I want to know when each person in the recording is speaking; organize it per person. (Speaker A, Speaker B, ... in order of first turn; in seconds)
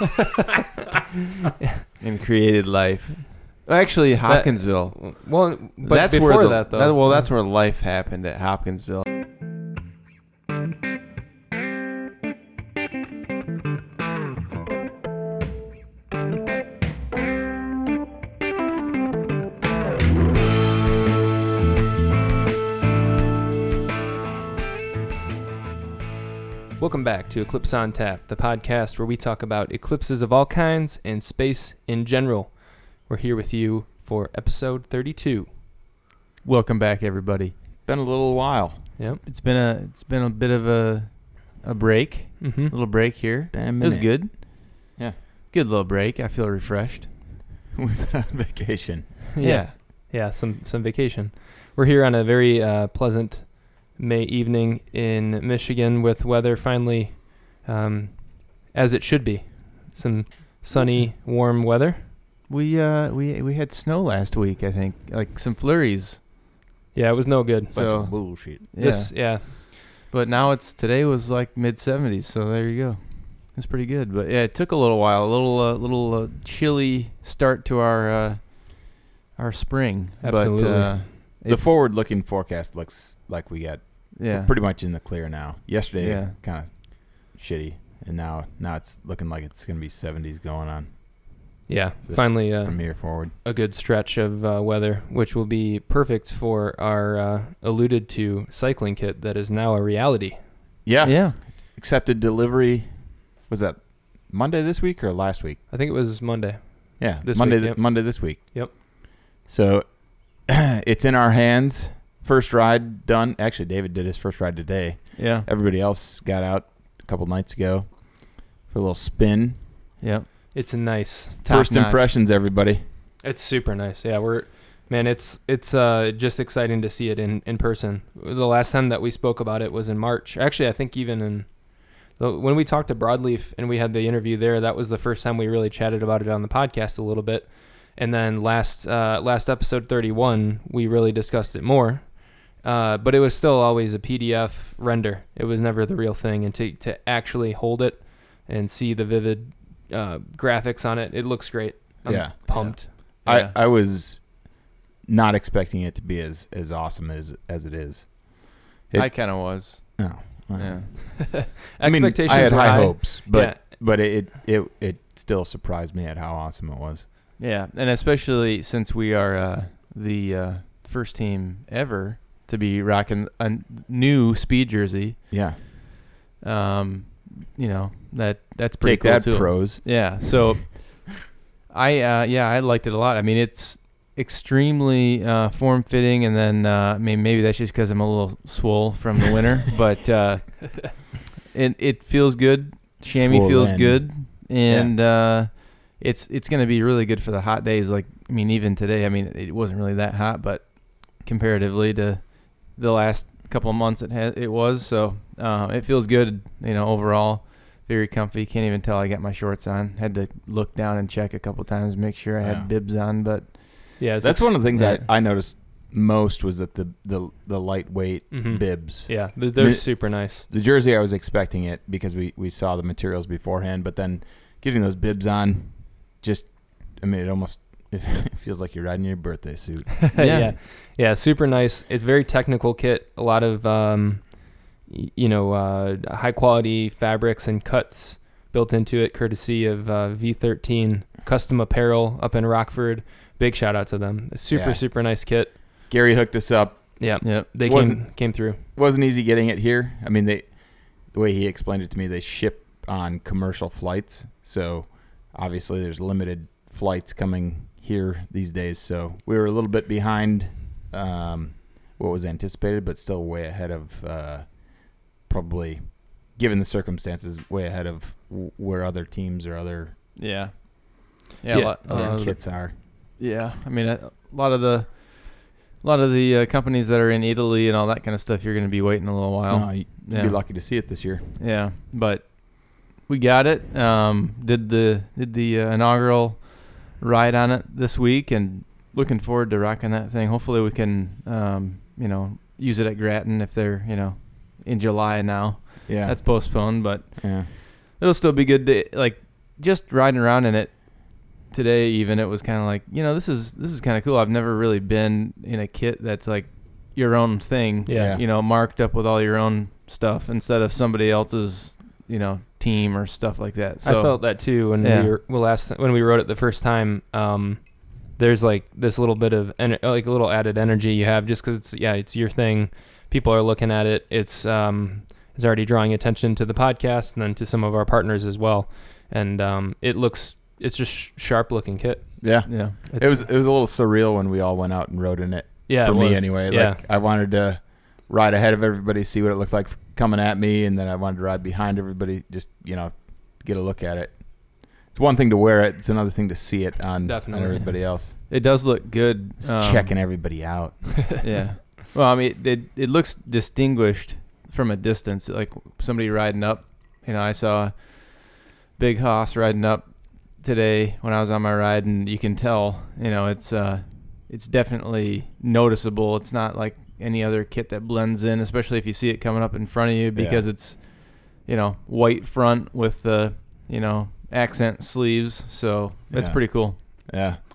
Speaker A: 2.0-9.1, 36.4-37.5, 39.2-44.9, 45.5-47.1, 49.4-49.7, 62.5-66.2, 67.7-81.6, 84.1-84.5, 86.0-86.3, 101.0-101.4, 115.2-115.5, 120.0-120.5, 121.4-122.1, 152.5-153.5, 158.9-160.9, 162.3-162.8, 167.4-175.8, 176.4-214.0, 214.7-215.1, 230.1-230.5, 247.2-247.4, 270.1-315.1, 332.4-332.8, 347.8-350.3, 351.2-376.8
Speaker B: 4.3-7.3, 26.8-35.5, 42.4-42.7, 49.4-62.1, 66.9-68.0, 68.8-69.5, 80.2-81.1, 91.7-100.4, 105.7-108.7, 120.5-121.4, 123.2-152.9, 161.3-163.6, 214.0-214.6, 218.3-220.4, 230.1-245.6, 247.0-248.6, 271.5-272.3, 307.9-308.2, 313.8-333.2, 335.7-336.8, 347.0-347.7
Speaker C: 37.8-38.9, 43.5-45.2, 47.7-49.2, 67.7-68.6, 81.5-93.3, 100.8-105.6, 107.0-119.7, 121.4-122.8, 152.1-167.1, 175.3-175.6, 178.8-180.4, 193.1-194.9, 212.4-212.7, 214.2-230.5, 244.5-245.3, 245.9-269.9, 271.8-272.8, 279.5-281.3, 295.9-297.5, 307.9-308.2, 332.2-348.1, 349.4-351.2, 370.1-370.4, 376.1-377.4